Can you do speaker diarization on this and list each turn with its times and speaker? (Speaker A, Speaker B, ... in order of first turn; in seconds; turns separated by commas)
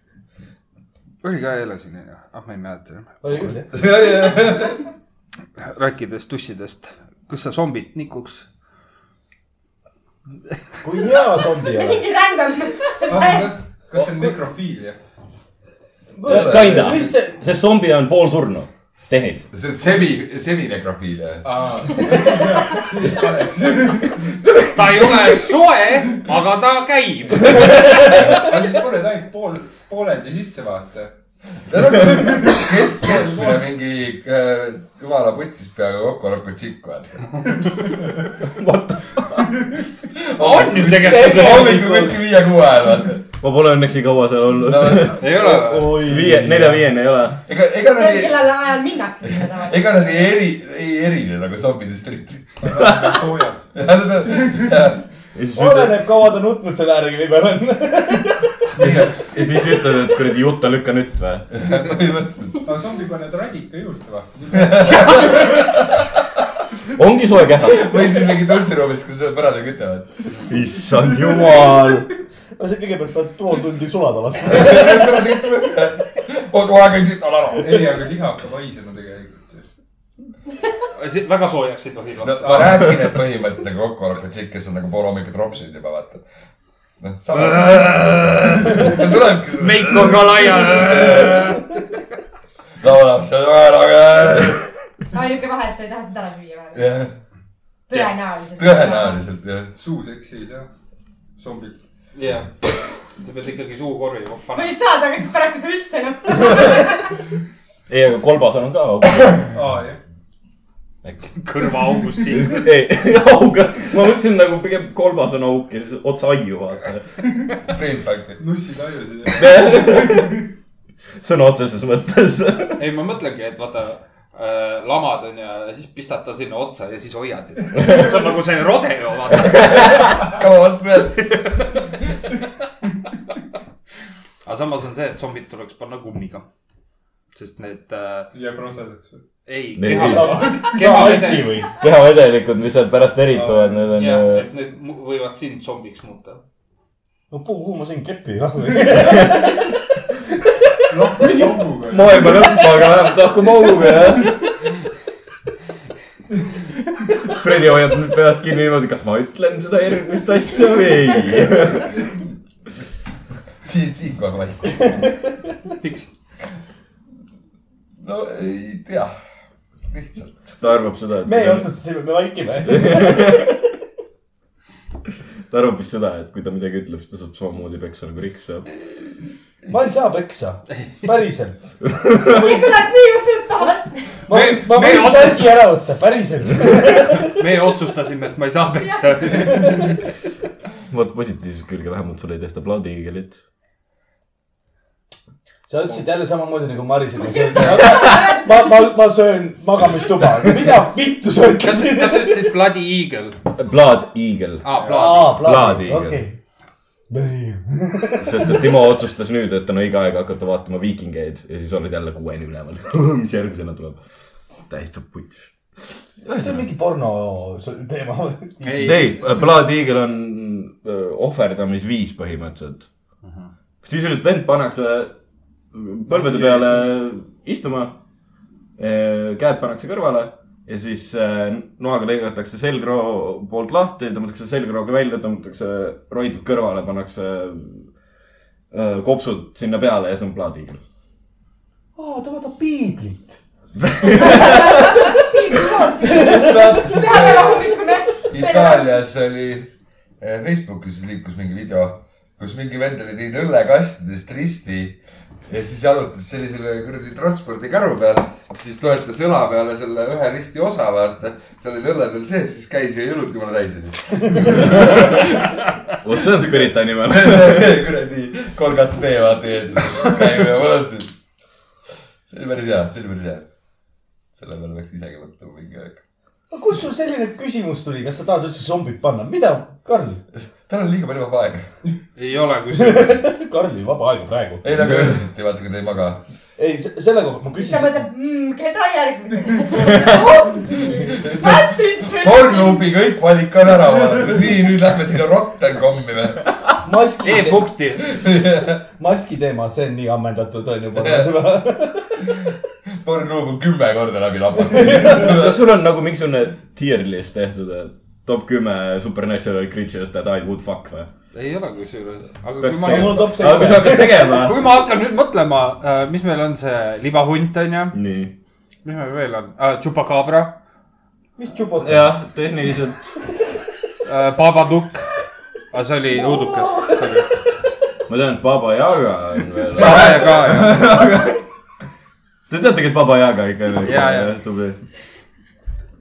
Speaker A: 1.2-3.3, Speaker B: 3.2-3.8, Speaker C: 3.7-4.8, Speaker A: 5.6-8.5, Speaker B: 10.8-12.1, Speaker D: 11.7-13.6, Speaker E: 13.0-15.0, Speaker B: 16.1-17.4, Speaker C: 16.2-17.0, Speaker F: 16.2-19.5, Speaker C: 19.5-22.1, Speaker E: 21.4-24.4, Speaker A: 24.7-28.0, Speaker E: 28.1-31.1, Speaker C: 31.7-37.5, Speaker E: 32.1-33.6, Speaker F: 38.4-39.5, Speaker C: 40.1-43.2, Speaker A: 40.3-42.1, Speaker B: 41.0-41.8, Speaker F: 43.4-45.4, Speaker C: 44.6-45.6, Speaker A: 45.2-46.0, Speaker B: 45.4-46.9, Speaker F: 46.0-47.4, Speaker C: 47.5-48.5, Speaker D: 47.8-50.1, Speaker C: 49.3-52.9, Speaker E: 52.6-53.7, Speaker C: 53.7-55.0, Speaker F: 55.4-56.0, Speaker B: 55.5-58.5, Speaker C: 58.8-59.1, Speaker F: 58.8-61.5, Speaker C: 61.5-62.6, Speaker E: 62.6-65.5, Speaker C: 64.5-66.0, Speaker F: 67.0-67.9, Speaker C: 67.7-70.2, Speaker F: 70.5-72.1, Speaker B: 72.6-75.3, Speaker C: 74.5-78.0, Speaker E: 77.6-79.7, Speaker A: 80.9-82.8, Speaker C: 82.2-86.2, Speaker E: 82.4-82.8, Speaker C: 87.0-91.5, Speaker A: 87.3-88.9, Speaker A: 89.5-91.7, Speaker C: 92.8-94.6, Speaker D: 95.1-97.0, Speaker C: 96.7-97.1, Speaker D: 97.9-99.2, Speaker C: 98.6-99.7, Speaker E: 99.8-100.7, Speaker E: 101.4-101.8, Speaker A: 102.2-102.5, Speaker A: 103.2-104.8, Speaker D: 104.5-107.1, Speaker F: 107.9-109.5, Speaker E: 109.5-110.0, Speaker F: 111.0-111.3, Speaker A: 111.4-112.7, Speaker F: 112.3-117.1, Speaker C: 117.7-118.4, Speaker E: 118.4-120.4, Speaker F: 119.4-120.4, Speaker F: 121.2-122.8, Speaker A: 122.8-130.2, Speaker C: 129.5-131.8, Speaker A: 134.4-136.4, Speaker A: 137.3-138.3, Speaker E: 138.3-139.2, Speaker A: 139.5-141.6, Speaker F: 139.8-140.6, Speaker B: 140.0-141.7, Speaker E: 140.2-141.0, Speaker F: 141.8-144.5, Speaker E: 143.3-144.2, Speaker A: 144.0-146.4, Speaker B: 147.3-149.8, Speaker F: 149.0-149.4, Speaker E: 150.9-152.6, Speaker F: 151.9-154.4, Speaker F: 157.2-162.0, Speaker C: 163.6-164.9, Speaker A: 165.8-166.1, Speaker C: 168.0-169.1, Speaker C: 169.9-170.6, Speaker F: 170.6-171.7, Speaker B: 171.2-173.6, Speaker F: 172.7-173.5, Speaker F: 175.5-178.7, Speaker B: 179.7-181.6, Speaker F: 181.9-182.5, Speaker D: 182.2-184.2, Speaker B: 184.3-187.4, Speaker A: 184.3-185.6, Speaker A: 186.8-190.0, Speaker D: 188.9-189.2, Speaker B: 189.5-189.9, Speaker F: 190.9-193.4, Speaker B: 195.7-202.6, Speaker D: 197.6-198.4, Speaker A: 201.6-203.4, Speaker F: 203.6-206.2, Speaker A: 204.6-205.4, Speaker B: 204.8-206.4, Speaker B: 207.1-208.7, Speaker F: 208.2-214.0, Speaker F: 214.7-216.7, Speaker B: 216.3-219.2, Speaker A: 218.6-219.5, Speaker F: 218.8-222.9, Speaker F: 223.8-225.2, Speaker F: 225.7-228.0, Speaker A: 226.1-226.9, Speaker F: 228.8-237.9, Speaker F: 238.7-240.8, Speaker B: 242.0-243.4, Speaker F: 243.8-244.9, Speaker D: 244.1-249.0, Speaker B: 244.2-245.1, Speaker C: 246.1-247.8, Speaker B: 246.3-246.9, Speaker C: 248.3-265.6, Speaker F: 264.6-265.3, Speaker F: 266.0-267.8, Speaker C: 267.0-271.1, Speaker C: 272.3-273.5, Speaker C: 274.4-276.0, Speaker B: 276.5-280.2, Speaker C: 280.7-281.7, Speaker A: 282.2-283.3, Speaker B: 282.7-284.7, Speaker C: 284.6-286.2, Speaker B: 286.6-288.0, Speaker D: 287.6-292.9, Speaker C: 291.0-296.5, Speaker B: 296.8-297.7, Speaker A: 297.2-298.1, Speaker C: 298.0-298.8, Speaker B: 299.0-302.4, Speaker C: 301.0-301.4, Speaker C: 303.0-305.6, Speaker B: 304.7-305.1, Speaker F: 305.1-311.1, Speaker A: 311.3-318.0, Speaker F: 312.6-314.7, Speaker B: 312.8-314.3, Speaker F: 317.9-318.3, Speaker A: 318.8-320.6, Speaker B: 321.4-322.2, Speaker F: 321.8-323.1, Speaker A: 324.0-325.1, Speaker A: 325.7-327.3, Speaker B: 326.3-327.0, Speaker F: 328.1-331.4, Speaker A: 329.8-331.0, Speaker F: 332.5-334.8, Speaker A: 333.8-334.3